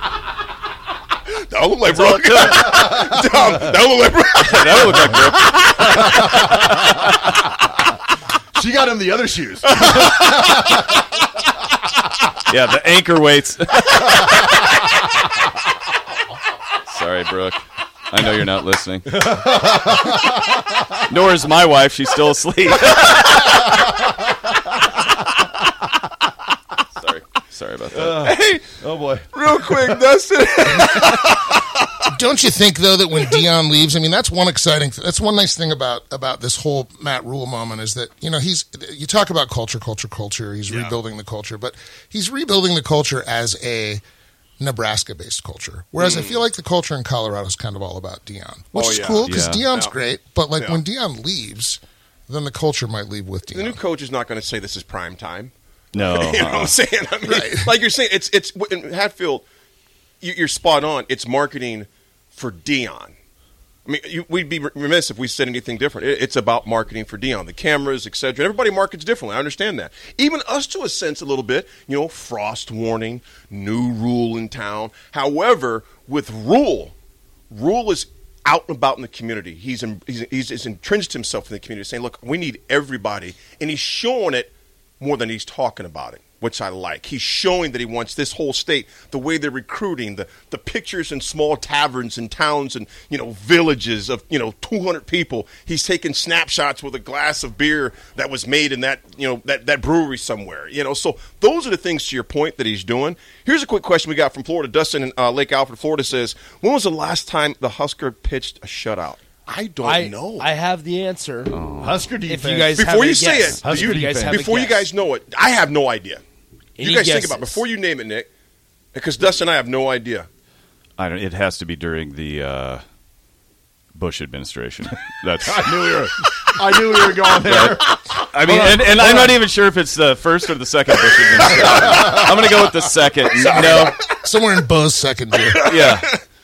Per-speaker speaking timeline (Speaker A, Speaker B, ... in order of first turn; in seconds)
Speaker A: 1.2-4.7, 28.3-28.6, 29.3-31.3, 46.0-46.4, 48.7-50.0, 53.5-59.5, 60.2-63.1, 63.8-76.9, 77.5-110.4, 112.8-116.2, 116.8-118.3, 118.9-120.3, 135.5-136.2
Speaker B: 1.9-2.9, 4.4-7.3, 10.3-10.5, 12.5-15.0, 16.8-24.0, 26.9-28.4, 49.2-49.7, 55.9-56.8, 111.5-112.0, 121.0-122.8, 123.9-133.9, 135.7-136.1
Speaker C: 2.4-3.8, 5.8-6.5, 8.5-10.8, 19.1-20.4, 27.9-29.9, 111.8-114.4, 125.4-129.4, 131.4-132.5
Speaker D: 32.1-44.0, 44.6-53.8, 57.2-57.7, 133.5-135.7
Speaker E: 109.8-111.5, 112.3-114.9, 116.8-117.6